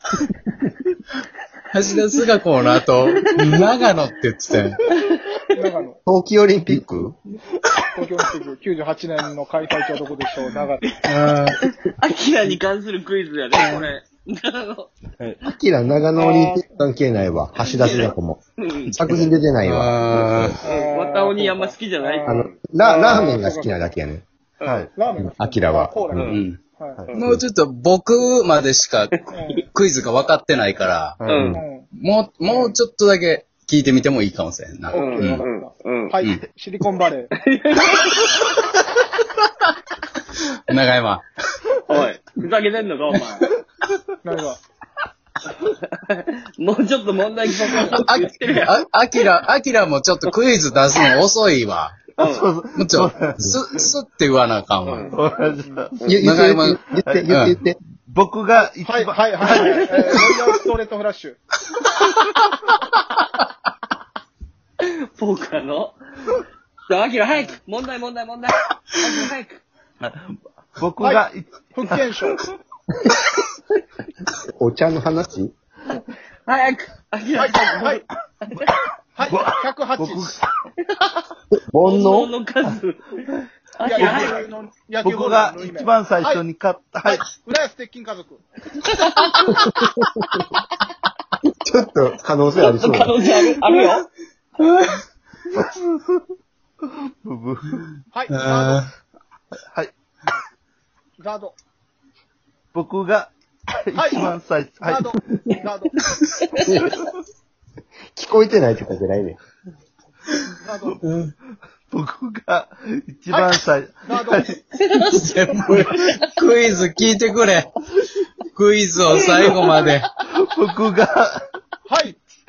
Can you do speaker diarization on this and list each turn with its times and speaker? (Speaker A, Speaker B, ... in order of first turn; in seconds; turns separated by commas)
Speaker A: 1.7-4.8, Speaker B: 3.4-3.7, Speaker B: 5.0-5.4, Speaker C: 5.5-6.0, Speaker D: 6.1-7.2, Speaker C: 7.9-10.9, Speaker A: 11.1-11.6, Speaker B: 11.8-14.9, Speaker C: 13.6-13.9, Speaker E: 15.2-15.4, Speaker D: 15.4-18.4, Speaker C: 16.2-16.7, Speaker B: 17.7-18.9, Speaker E: 18.9-19.3, Speaker D: 19.0-20.6, Speaker A: 19.6-20.6, Speaker C: 20.6-23.9, Speaker B: 20.6-22.6, Speaker D: 22.2-24.2, Speaker B: 24.6-24.9, Speaker E: 24.6-24.9, Speaker C: 24.9-27.0, Speaker D: 25.2-26.4, Speaker B: 26.1-26.4, Speaker A: 26.2-31.2, Speaker E: 27.0-27.2, Speaker C: 29.3-29.7, Speaker E: 31.2-31.6, Speaker B: 31.3-31.6, Speaker C: 31.5-31.9, Speaker A: 31.8-35.5, Speaker C: 32.5-32.8, Speaker C: 34.9-37.4, Speaker B: 34.9-36.1, Speaker B: 37.5-38.6, Speaker A: 40.4-41.2, Speaker B: 41.9-43.5, Speaker C: 44.2-44.6, Speaker B: 46.1-48.7, Speaker C: 47.5-48.1, Speaker A: 47.8-52.1, Speaker E: 52.2-53.9, Speaker B: 52.2-52.5, Speaker A: 52.8-55.1, Speaker B: 54.9-55.2, Speaker C: 55.0-55.9, Speaker E: 55.1-56.1, Speaker D: 56.0-57.8, Speaker A: 56.2-57.6, Speaker E: 56.9-57.5, Speaker E: 58.1-60.5, Speaker C: 58.6-61.4, Speaker B: 59.5-60.2, Speaker B: 64.8-66.0, Speaker B: 66.9-69.6, Speaker E: 70.0-72.1, Speaker C: 71.0-72.4, Speaker D: 73.0-73.3, Speaker D: 74.6-75.5, Speaker B: 76.5-78.8, Speaker C: 77.3-78.0, Speaker C: 79.2-80.4, Speaker E: 79.3-80.4, Speaker B: 81.0-81.3, Speaker D: 81.5-82.3, Speaker B: 81.8-84.5, Speaker C: 83.8-86.4, Speaker E: 84.0-84.4, Speaker E: 85.0-87.2, Speaker C: 87.0-88.4, Speaker B: 88.8-89.8, Speaker D: 89.5-90.0, Speaker D: 91.6-93.2, Speaker B: 92.6-94.1, Speaker A: 94.6-95.0, Speaker E: 95.5-96.2, Speaker E: 97.2-97.8, Speaker C: 98.1-98.8, Speaker A: 98.3-98.9, Speaker E: 99.7-99.9, Speaker C: 101.2-101.5, Speaker E: 102.7-105.2, Speaker C: 103.9-105.9, Speaker B: 106.2-107.0, Speaker D: 106.7-106.9, Speaker D: 108.2-109.4, Speaker C: 110.6-111.0, Speaker A: 111.0-111.3, Speaker E: 111.9-114.6, Speaker C: 114.1-114.5, Speaker B: 114.8-116.0, Speaker A: 115.0-117.7, Speaker A: 118.5-120.1, Speaker B: 119.6-119.9, Speaker E: 120.3-121.4, Speaker C: 121.9-122.2